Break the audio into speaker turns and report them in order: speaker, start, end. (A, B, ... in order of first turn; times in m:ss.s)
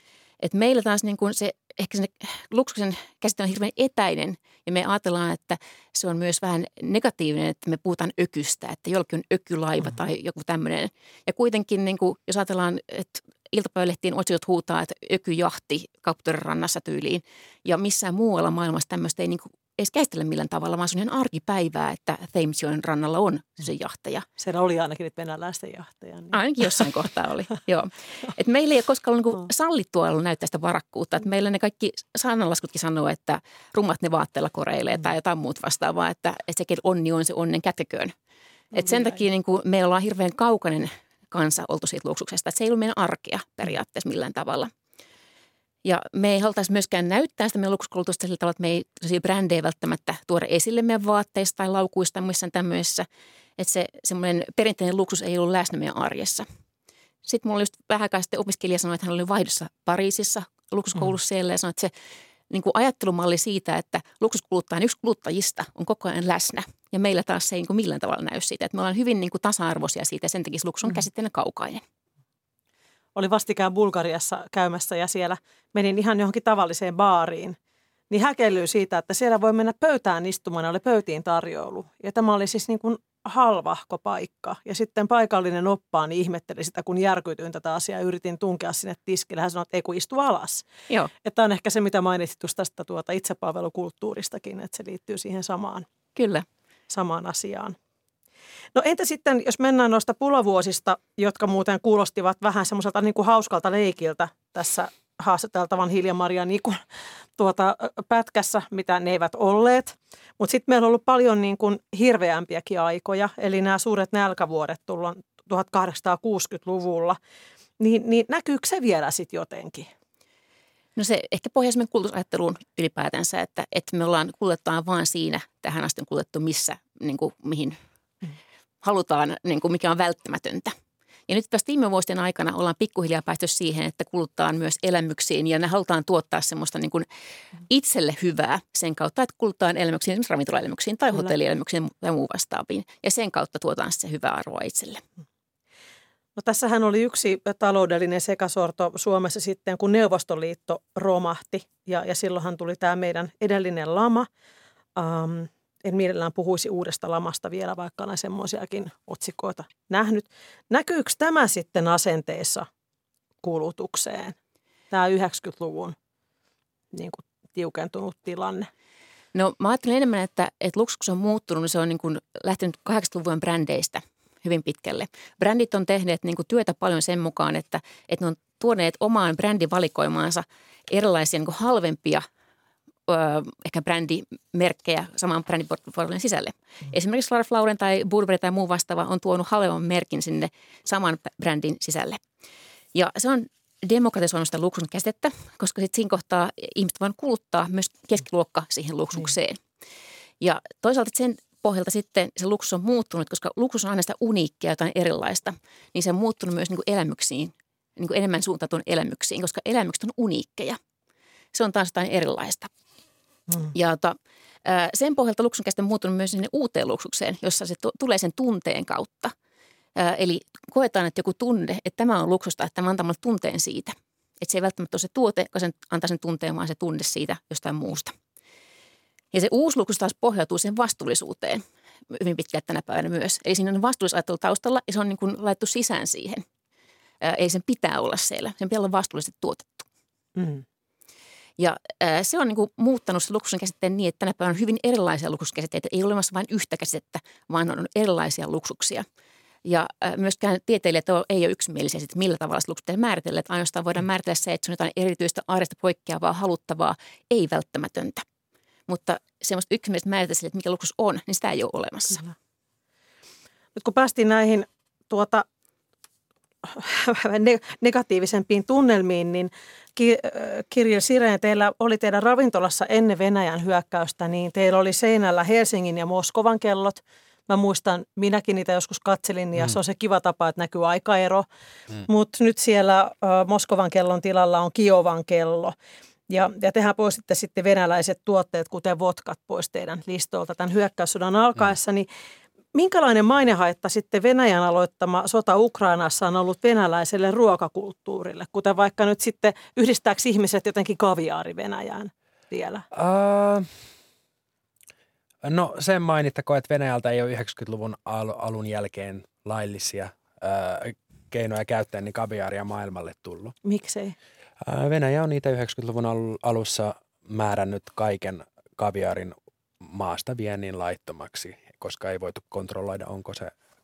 0:00.4-0:24.2 A
0:24.4-0:26.8 B
0:26.3-0:38.1 A
0:38.7-0:44.7 A
0:45.8-0:53.0 A
0:53.6-0:56.5 A
0:57.2-1:01.9 A
1:02.5-1:11.8 A
1:13.1-1:17.6 B
1:18.1-1:30.7 B
1:31.2-1:35.8 B
1:36.2-1:36.4 A
1:36.9-1:37.8 B
1:38.7-1:46.8 B
1:47.4-1:57.2 B
1:57.8-1:59.9 B
2:01.0-2:07.8 A
2:08.8-2:10.7 A
2:11.3-2:17.0 A
2:17.7-2:25.0 A
2:26.4-2:34.3 B
2:35.0-2:42.7 B
2:43.4-2:44.3 B
2:44.9-2:46.0 B
2:46.9-2:48.7 B
2:49.3-3:02.2 A
3:03.1-3:12.2 A
3:12.9-3:19.6 A
3:20.4-3:30.8 A
3:31.5-3:32.7 A
3:33.7-3:39.3 A
3:40.0-3:48.1 A
3:49.3-3:56.4 A
3:57.2-3:59.9 A
4:00.4-4:00.6 B
4:01.6-4:09.0 A
4:09.6-4:18.2 A
4:18.9-4:22.2 A
4:23.8-4:25.4 B
4:26.6-4:41.4 B
4:42.0-4:45.7 B
4:46.3-4:52.1 B
4:52.7-5:02.8 B
5:02.9-5:03.7 C
5:05.4-5:13.5 C
5:13.6-5:14.1 B
5:14.6-5:23.5 C